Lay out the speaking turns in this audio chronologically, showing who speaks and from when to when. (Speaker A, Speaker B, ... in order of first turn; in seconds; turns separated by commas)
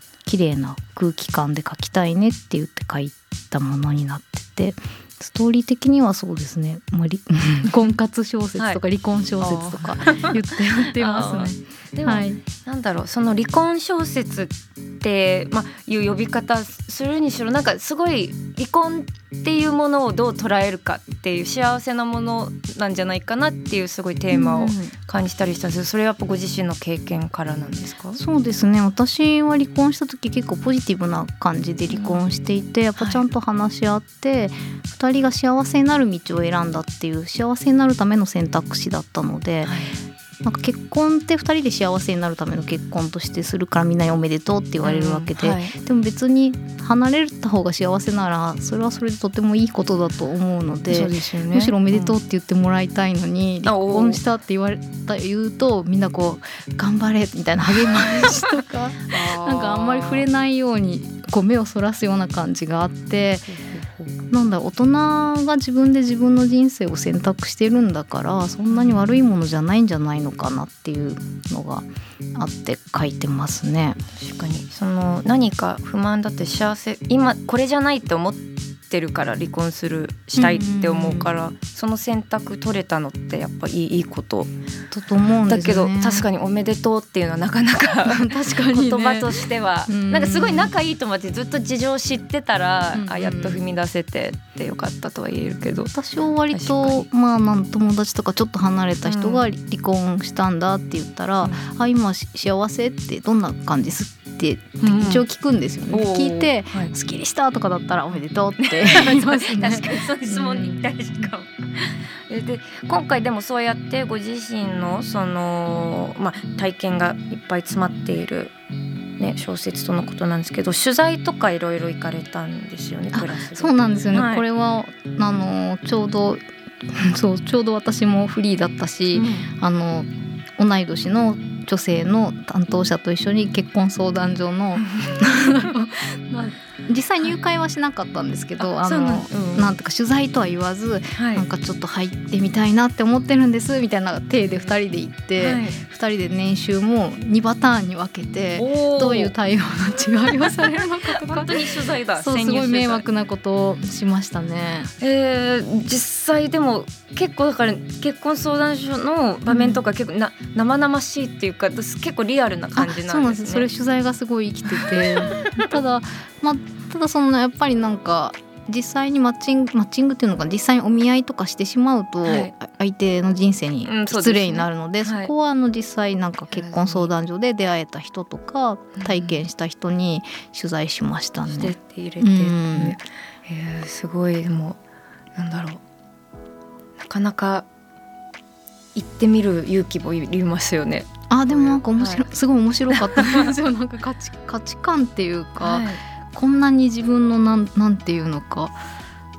Speaker A: 0.2-12.4, Speaker B: 9.4-28.2, Speaker A: 24.3-24.9, Speaker A: 28.1-39.7, Speaker B: 31.9-32.2, Speaker B: 33.0-33.2, Speaker B: 39.6-39.9, Speaker A: 40.4-63.5, Speaker B: 44.8-45.7, Speaker B: 50.9-52.2, Speaker B: 53.6-54.2, Speaker B: 59.1-60.2, Speaker B: 63.5-64.2, Speaker A: 64.3-74.0, Speaker B: 68.7-69.2, Speaker B: 74.1-84.5, Speaker A: 80.3-81.3, Speaker A: 84.9-86.3, Speaker B: 85.5-95.9, Speaker A: 88.0-89.3, Speaker A: 89.9-90.7, Speaker A: 92.9-93.7, Speaker A: 95.9-110.8, Speaker B: 96.5-97.1, Speaker B: 99.0-99.5, Speaker B: 104.8-105.2, Speaker B: 105.9-106.9, Speaker B: 108.6-118.5, Speaker B: 119.2-124.4, Speaker A: 123.1-154.9, Speaker B: 129.1-129.5, Speaker B: 134.8-135.6, Speaker B: 138.6-139.7, Speaker B: 141.2-141.4, Speaker B: 145.4-145.8, Speaker B: 148.6-149.3, Speaker B: 151.1-153.0, Speaker B: 155.0-163.7, Speaker A: 159.5-159.8, Speaker A: 162.7-183.0, Speaker B: 164.8-165.6, Speaker B: 172.2-172.5, Speaker B: 173.8-175.3, Speaker B: 176.5-177.1, Speaker B: 178.9-179.4, Speaker B: 181.4-184.8, Speaker B: 185.3-185.8, Speaker B: 187.0-187.7, Speaker B: 188.9-192.2, Speaker A: 191.3-198.8, Speaker B: 192.9-193.5, Speaker B: 195.6-196.0